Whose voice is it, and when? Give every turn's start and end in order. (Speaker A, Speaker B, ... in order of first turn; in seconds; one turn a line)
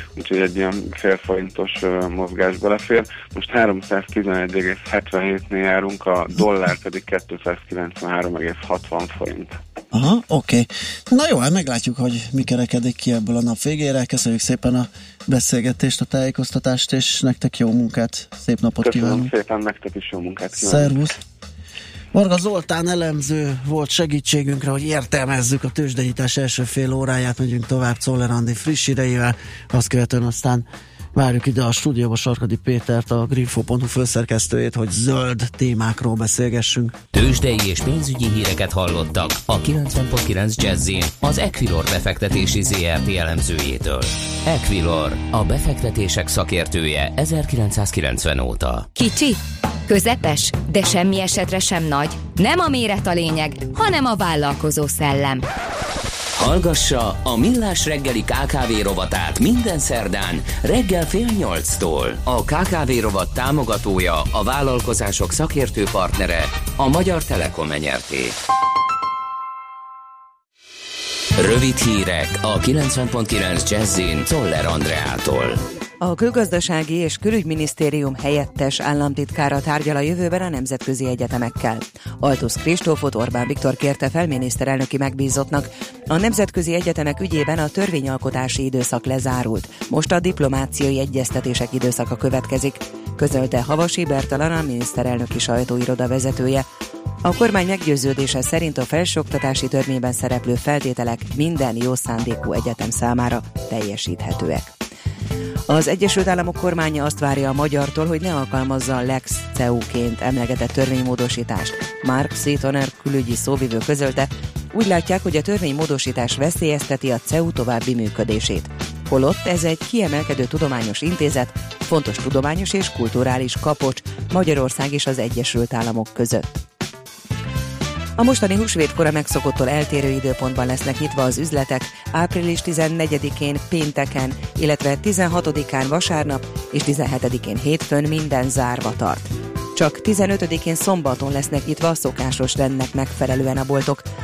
Speaker A: 0.2-9.6
Speaker B: 9.9-19.3
Speaker A: 18.8-21.0
Speaker B: 20.6-21.2
Speaker B: 22.1-37.0
Speaker C: 37.1-48.9
Speaker D: 49.0-55.5
Speaker C: 56.4-68.4
Speaker C: 71.4-75.6
Speaker E: 76.0-96.7
Speaker E: 97.2-104.7
Speaker E: 105.7-126.5
Speaker E: 128.2-144.1